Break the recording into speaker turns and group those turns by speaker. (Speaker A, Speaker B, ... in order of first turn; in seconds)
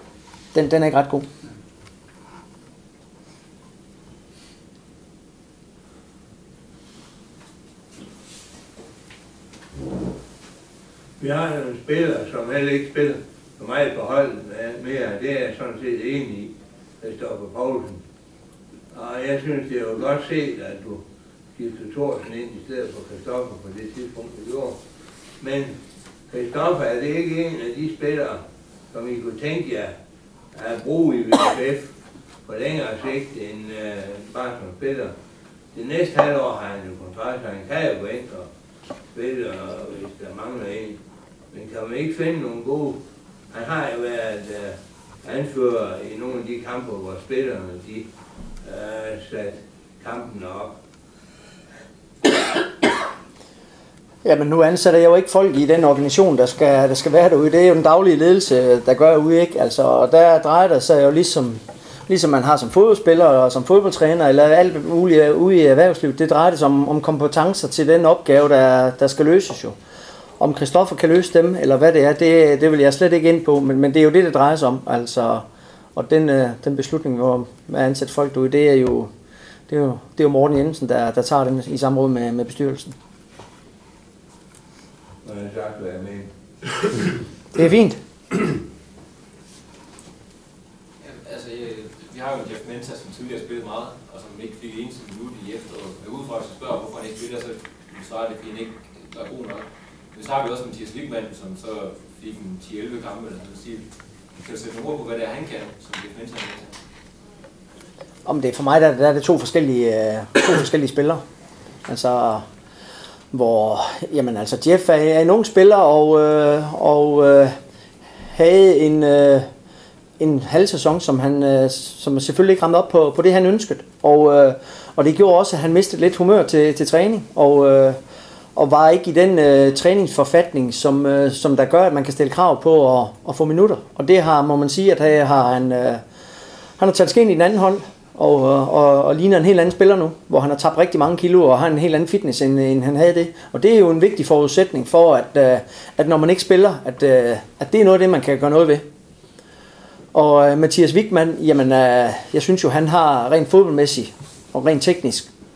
Speaker A: 0.5-1.3, 54.2-69.8, 70.4-75.4, 76.0-79.1, 79.7-83.0, 87.5-88.0, 108.2-111.2, 111.8-112.5, 113.3-117.5, 118.3-119.5, 120.2-128.0, 128.6-136.0, 136.8-148.8, 150.1-155.3
Speaker B: 11.2-18.0, 18.9-21.0, 21.5-24.8, 25.4-25.8, 26.3-29.9, 30.5-31.9, 32.4-35.1, 35.7-38.5, 39.1-41.0, 41.5-43.0, 43.5-48.1, 48.6-50.7, 85.2-87.0
Speaker C: 91.0-106.8